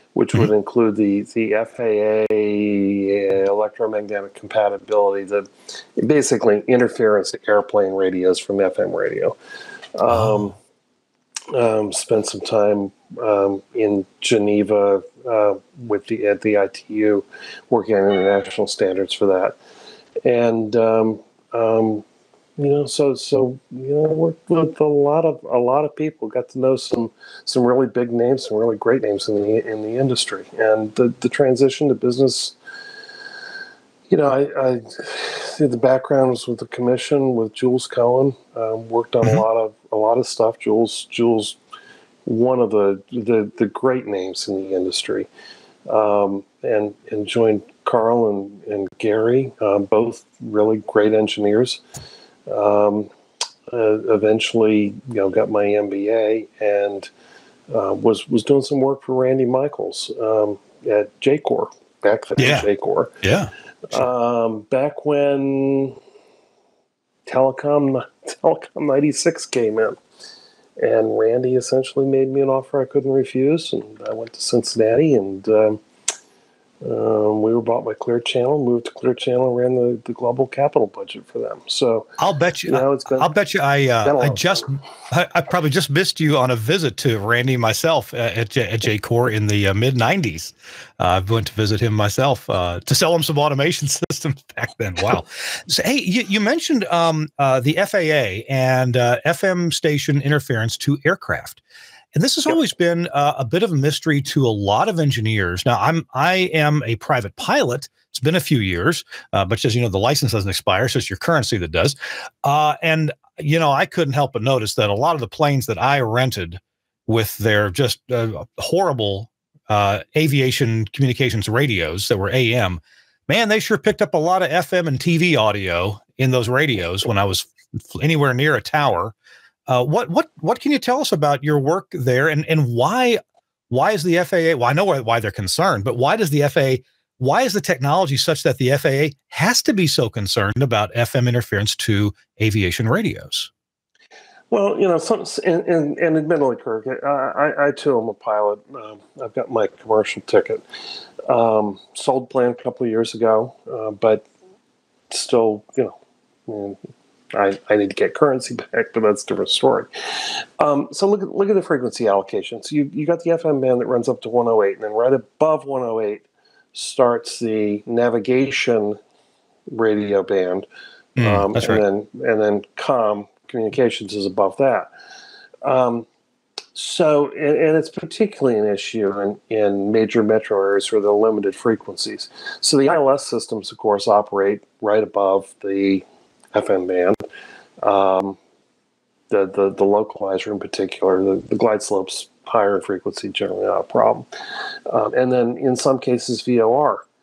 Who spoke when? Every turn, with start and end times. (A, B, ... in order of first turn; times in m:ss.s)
0:00.1-0:09.4 A
0:09.9-0:10.6 A
0:11.5-0:19.6 A
0:20.2-0:22.0 A
0:22.6-0:32.6 A
0:34.1-0:41.6 A
0:42.2-0:45.3 A
0:45.9-0:51.8 A
0:52.5-0:53.1 A
0:53.7-0:57.1 A
0:57.7-1:03.2 A
1:02.4-1:02.7 B
1:03.2-1:03.5 B
1:03.9-1:06.0 A
1:07.2-1:10.0 A
1:10.8-1:15.8 A
1:16.8-1:22.1 A
1:22.2-1:41.6 B
1:22.7-1:23.3 A
1:24.0-1:24.7 A
1:42.1-2:09.1 B
2:09.7-2:23.5 B
2:24.5-2:30.6 A
2:31.3-2:34.2 A
2:35.1-2:36.0 A
2:36.5-2:36.8 A
2:37.3-2:49.0 A
2:49.7-2:50.7 A
2:51.2-2:51.8 B
2:51.2-2:54.9 A
2:55.6-2:56.1 A
2:56.7-3:07.2 A
3:07.8-3:08.4 A
3:09.3-3:14.3 A
3:14.9-3:17.0 A